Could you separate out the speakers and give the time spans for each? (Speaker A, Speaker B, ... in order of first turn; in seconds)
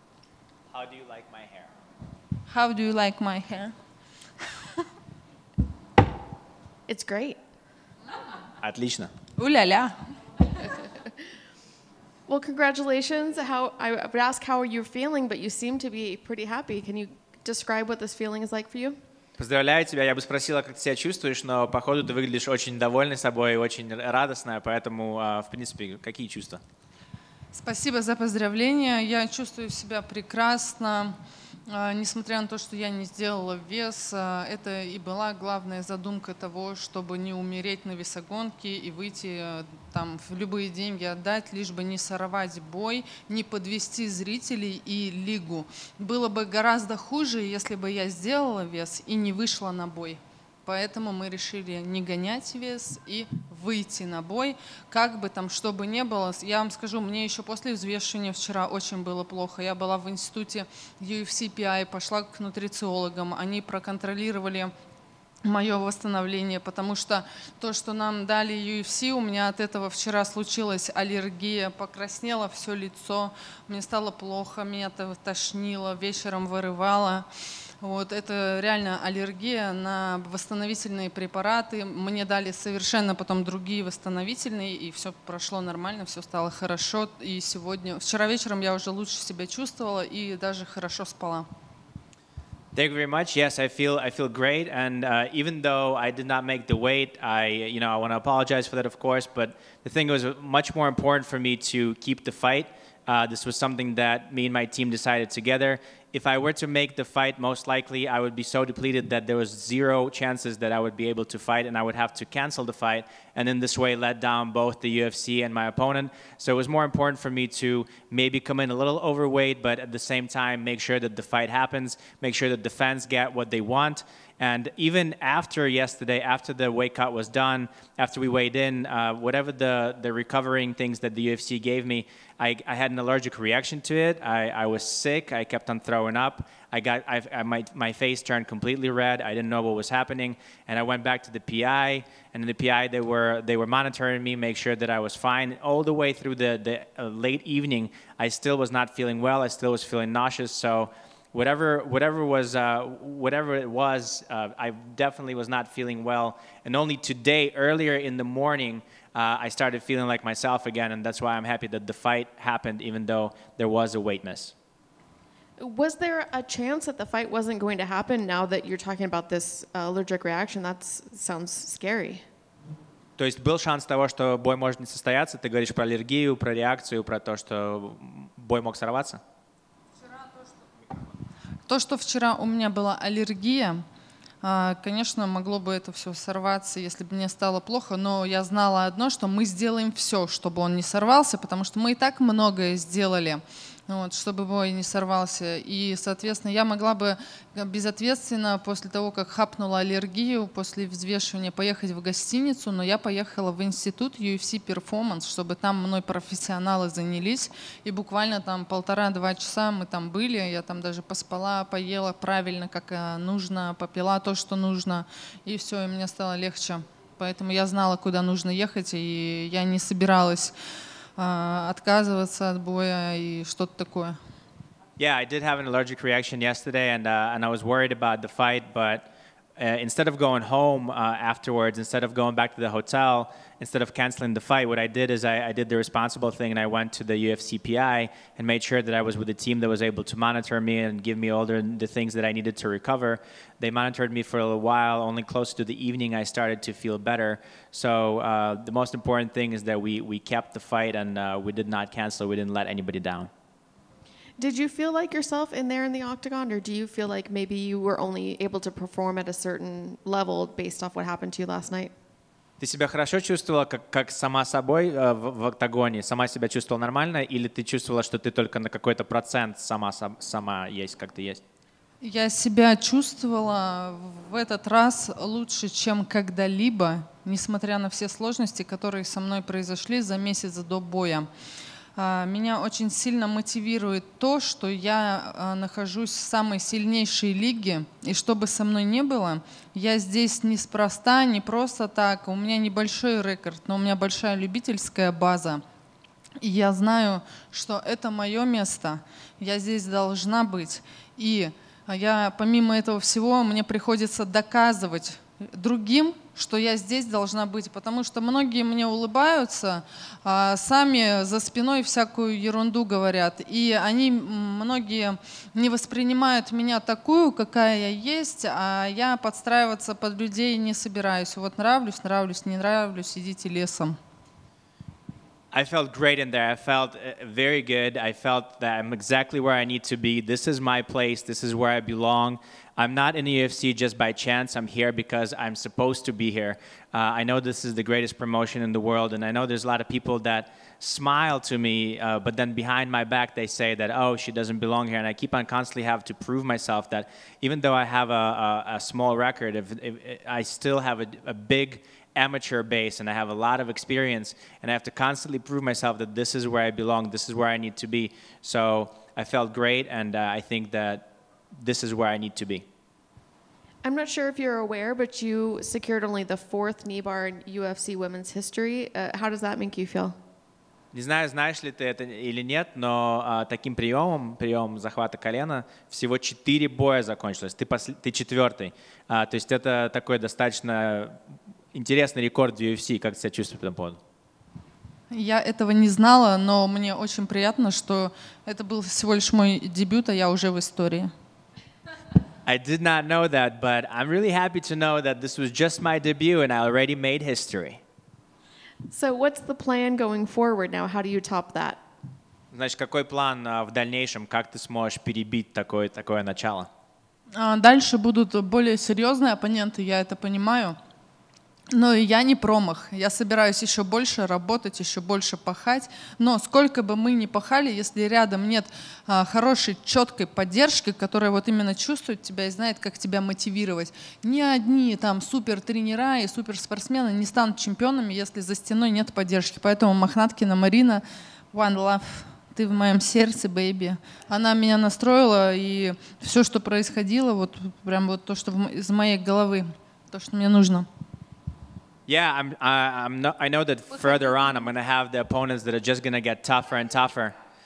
Speaker A: 0.7-1.7, 8.6-9.1, 19.4-26.6, 92.7-164.5, 173.2-179.2, 225.0-253.3, 262.6-271.4, 325.5-361.1, 361.6-362.6, 370.9-381.1, 381.7-384.0, 392.4-397.8, 402.5-406.7, 442.1-447.3
Speaker B: 2.5-3.7, 9.3-9.9, 27.5-31.1, 31.7-64.7, 65.4-77.2, 77.8-91.5, 181.7-183.8, 184.4-220.5, 221.2-224.2, 272.0-281.3, 281.9-295.6, 296.4-324.0, 385.1-391.1, 407.3-410.8, 411.7-440.9
Speaker C: 6.9-7.4, 12.3-19.0, 165.6-172.2, 254.4-261.9, 363.8-370.1, 398.9-401.8